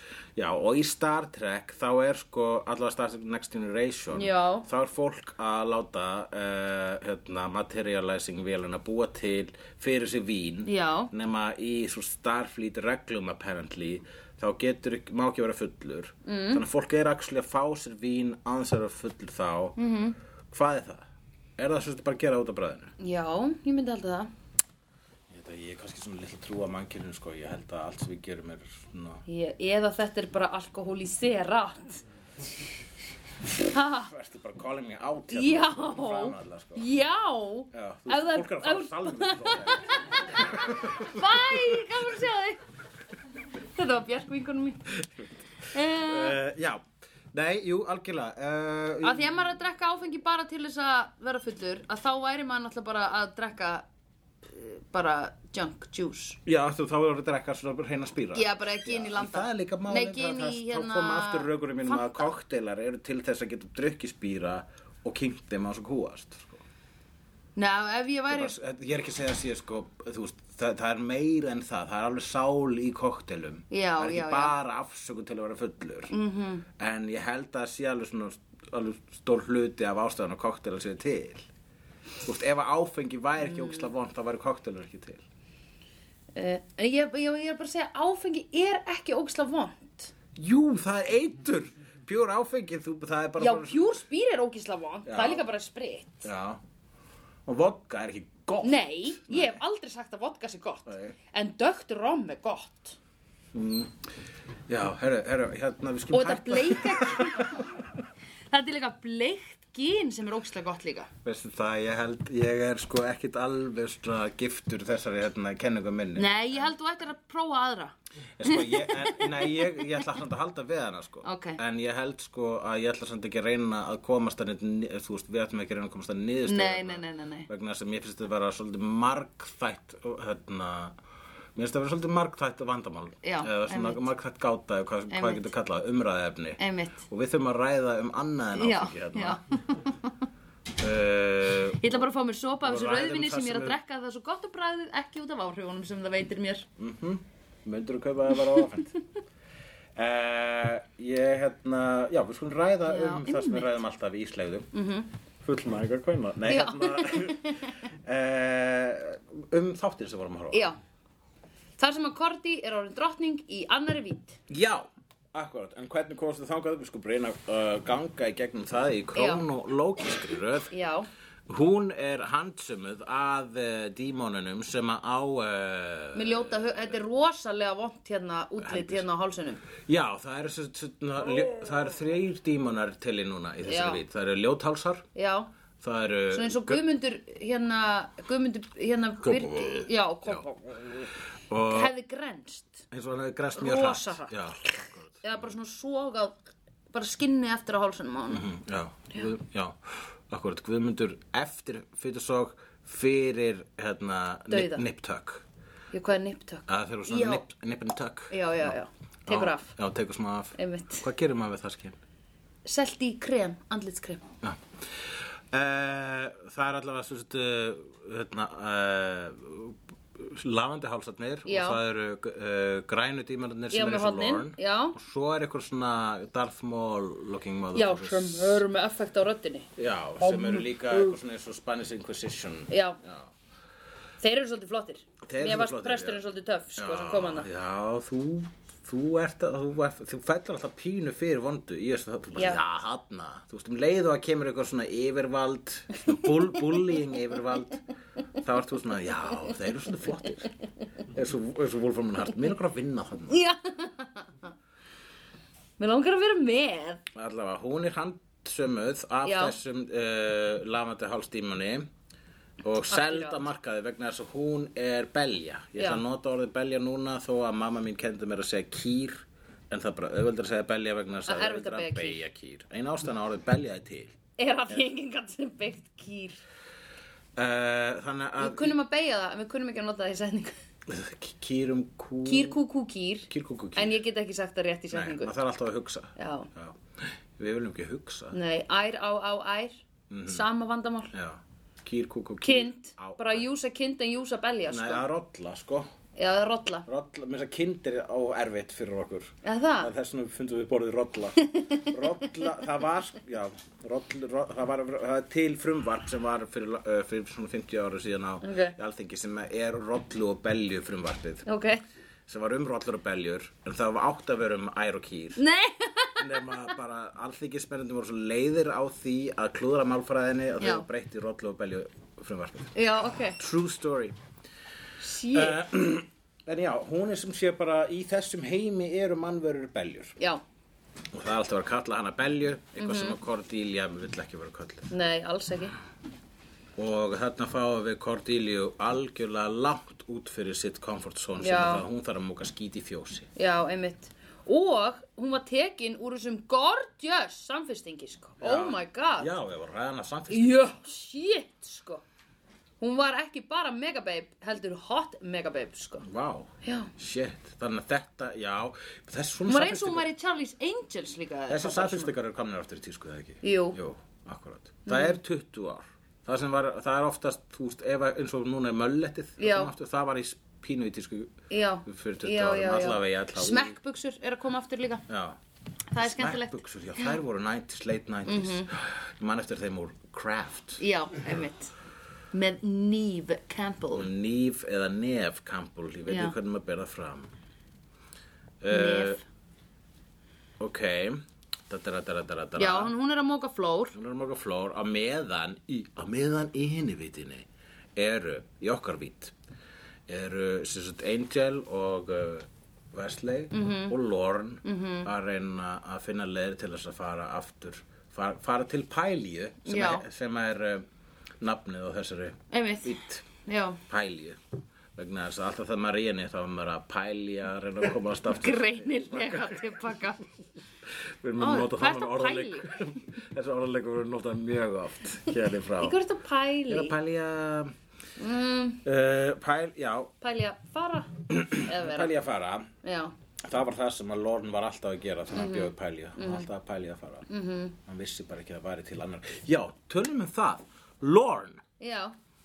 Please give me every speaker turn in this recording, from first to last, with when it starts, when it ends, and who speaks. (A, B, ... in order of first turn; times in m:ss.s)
0:00.4-0:19.8 A
0:04.1-0:04.7 B
0:10.7-0:11.1 B
0:16.2-0:16.6 B
0:19.8-0:20.2 B
0:20.5-0:22.9 A
0:23.0-0:24.3 B
0:25.3-0:29.2 A
0:29.3-0:32.0 B
0:33.6-0:34.1 B
0:34.1-0:36.9 A
0:35.3-0:42.6 B
0:37.7-0:41.8 A
0:43.6-0:44.8 B
0:45.0-0:49.4 A
0:45.7-0:46.4 B
0:49.0-0:53.9 B
0:54.5-0:56.4 B
0:56.4-1:06.6 A
0:58.3-1:02.3 B
1:07.6-1:08.6 B
1:08.3-1:16.1 A
1:13.7-1:14.5 B
1:16.1-1:16.7 B
1:16.8-1:21.5 A
1:22.2-1:25.2 A
1:23.4-1:23.9 B
1:26.4-1:30.1 B
1:30.4-1:34.0 A
1:33.4-1:36.3 B
1:35.1-1:35.4 A
1:36.2-1:36.6 A
1:37.5-1:39.6 A
1:38.6-1:43.0 B
1:40.9-1:41.2 A
1:43.5-1:44.1 A
1:44.7-1:47.6 A
1:46.1-1:47.6 B
1:48.5-1:51.1 B
1:51.2-1:56.6 A
1:56.2-2:00.0 B
1:58.4-2:11.0 A
2:01.2-2:01.6 B
2:06.5-2:07.5 B
2:11.6-2:19.4 A
2:13.2-2:14.1 B
2:15.1-2:15.5 B
2:16.6-2:17.0 B
2:18.6-2:20.1 B
2:20.8-2:22.0 A
2:21.8-2:26.7 B
2:22.6-2:23.8 A
2:26.8-2:28.9 A
2:30.0-2:34.7 A
2:32.9-2:33.8 B
2:34.7-2:35.1 B
2:35.4-2:40.7 A
2:36.5-2:37.8 B
2:40.5-2:40.8 B
2:41.8-2:44.4 B
2:44.5-2:50.7 A
2:49.2-2:49.4 B
2:50.7-2:51.1 B
2:51.5-2:56.6 A
2:56.1-2:59.6 B
2:58.6-2:59.0 A
2:59.8-3:05.1 A
3:03.6-3:04.0 B
3:05.2-3:05.5 B
3:05.8-3:06.8 A
3:06.3-3:11.1 B
3:09.2-3:10.4 A
3:11.5-3:11.9 A
3:11.7-3:12.8 B
3:12.9-3:15.5 A
3:13.6-3:16.4 B
3:16.9-3:18.5 B
3:18.3-3:25.4 A
3:24.5-3:24.8 B
3:25.9-3:27.4 B
3:26.7-3:32.0 A
3:28.3-3:29.8 B
3:30.6-3:31.0 B
3:32.6-3:34.2 B
3:34.4-3:48.6 A
3:41.5-3:41.8 B
3:43.7-3:45.0 B
3:47.7-3:49.7 B
3:49.8-3:53.3 A
3:50.2-3:51.2 B
3:52.7-3:53.0 B
3:54.2-3:57.5 B
3:55.2-3:56.2 A
3:56.8-4:07.8 A
4:02.4-4:02.6 B
4:08.4-4:10.5 A
4:11.1-4:13.4 A
4:13.3-4:14.5 B
4:15.8-4:17.0 B
4:17.1-4:21.9 A
4:19.2-4:19.6 B
4:22.6-4:34.2 A
4:22.9-4:23.4 B
4:31.3-4:32.2 B
4:34.4-4:36.4 B
4:37.4-4:38.8 A
4:38.4-4:40.5 B
4:40.9-4:42.6 A
4:42.2-4:45.4 B
4:43.3-4:44.0 A
4:44.9-4:48.4 A
4:46.2-4:46.5 B
4:48.3-4:51.1 B
4:50.1-4:50.5 A
4:51.1-4:53.5 A
4:52.4-4:55.0 B
4:54.7-4:55.9 A
4:56.2-4:56.9 B
4:56.9-5:11.5 A
4:59.4-4:59.9 B
5:01.4-5:02.3 B
5:08.4-5:08.8 B
5:11.5-5:11.8 B
5:12.3-5:15.4 A
5:15.4-5:16.3 B
5:16.2-5:24.2 A
5:20.6-5:20.9 B
5:22.8-5:23.4 B
5:25.0-5:25.6 B
5:25.3-5:30.2 A
5:31.1-5:34.9 A
5:32.8-5:33.2 B
5:34.9-5:35.8 B
5:36.8-5:43.3 A
5:41.4-5:41.8 B
5:43.4-5:49.3 B
5:48.4-5:50.6 A
5:50.3-5:52.0 B
5:52.8-5:56.1 B
5:56.0-6:00.1 A
5:56.6-5:56.9 B
5:59.5-6:02.1 B
6:01.5-6:13.8 A
6:03.4-6:03.8 B
6:04.9-6:05.2 B
6:09.4-6:09.7 B
6:11.5-6:15.0 B
6:15.1-6:15.4 A
6:15.9-6:17.2 B
6:16.0-6:20.8 A
6:18.3-6:18.7 B
6:20.8-6:21.7 B
6:22.3-6:24.1 B
6:23.9-6:27.3 A
6:26.1-6:26.4 B
6:28.6-6:29.2 A
6:28.7-6:29.2 B
6:30.6-6:32.9 A
6:32.6-6:34.0 B
6:33.9-6:39.3 A
6:40.1-6:50.9 A
6:43.5-6:44.0 B
6:44.6-6:45.1 B
6:49.7-6:50.1 B
6:51.4-6:53.3 A
6:52.5-6:53.8 B
6:53.9-6:54.4 A
6:55.0-6:59.8 A
6:58.3-7:00.2 B
7:00.9-7:06.0 A
7:01.4-7:02.8 B
7:05.8-7:06.9 B
7:06.7-7:07.7 A
7:08.2-7:08.8 B
7:08.8-7:10.1 A
7:10.2-7:12.1 B
7:11.3-7:12.7 A
7:12.8-7:13.1 B
7:13.4-7:17.3 A
7:15.3-7:16.5 B
7:17.3-7:17.8 B
7:17.8-7:21.6 A
7:21.8-7:22.2 B